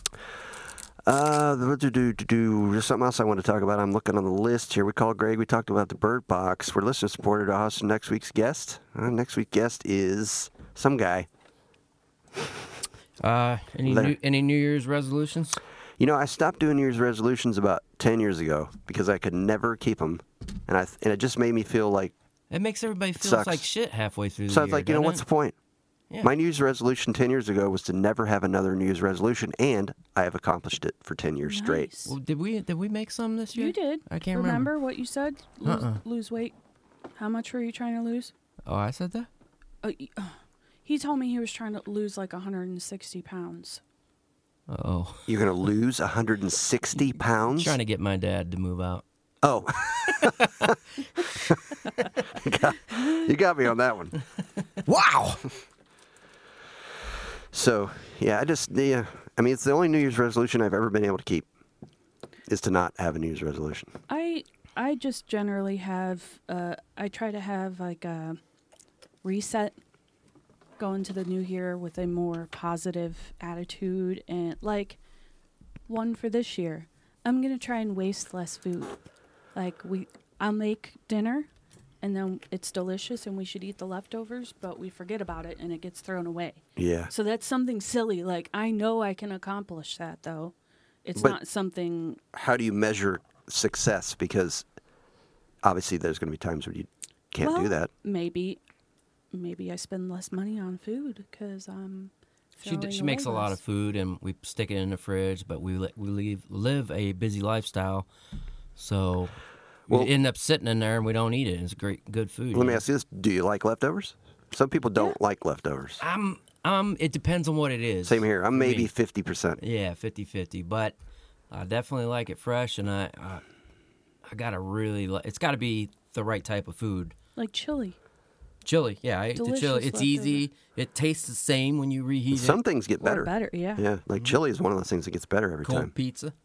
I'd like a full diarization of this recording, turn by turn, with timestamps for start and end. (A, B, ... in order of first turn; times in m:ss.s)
0:01.0-0:11.3 A
0:13.2-0:15.6 B
0:13.8-0:14.1 A
0:16.0-0:22.1 A
0:22.5-0:25.2 B
0:23.2-0:23.6 A
0:24.5-0:25.5 A
0:26.2-0:31.9 A
0:31.4-0:32.1 C
0:32.0-0:34.7 B
0:33.5-0:36.5 C
0:35.6-0:36.0 B
0:37.2-0:38.3 C
0:38.6-0:39.3 B
0:39.8-0:43.8 C
0:44.7-0:45.3 B
0:45.3-0:47.8 A
0:47.5-0:49.0 B
0:49.4-0:50.8 A
0:50.1-0:50.7 B
0:52.3-0:54.1 A
0:54.8-0:55.4 B
0:57.5-1:01.5 A
1:02.5-1:03.9 A
1:04.1-1:08.4 C
1:09.2-1:09.8 C
1:10.8-1:15.0 C
1:15.9-1:19.0 C
1:19.5-1:21.5 C
1:22.0-1:30.5 C
1:26.8-1:27.1 A
1:31.0-1:32.2 C
1:32.3-1:34.6 A
1:35.6-1:37.9 A
1:37.4-1:38.6 C
1:39.3-1:43.6 C
1:42.6-1:48.1 B
1:48.8-1:49.3 B
1:49.9-1:52.8 B
1:52.5-1:56.0 A
1:56.0-1:58.9 B
1:58.0-1:59.6 A
1:59.6-2:01.0 B
2:01.5-2:03.4 B
2:04.3-2:07.1 B
2:07.4-2:08.0 C
2:08.6-2:12.6 B
2:09.4-2:10.4 C
2:12.3-2:15.9 A
2:13.0-2:13.9 C
2:15.6-2:16.3 B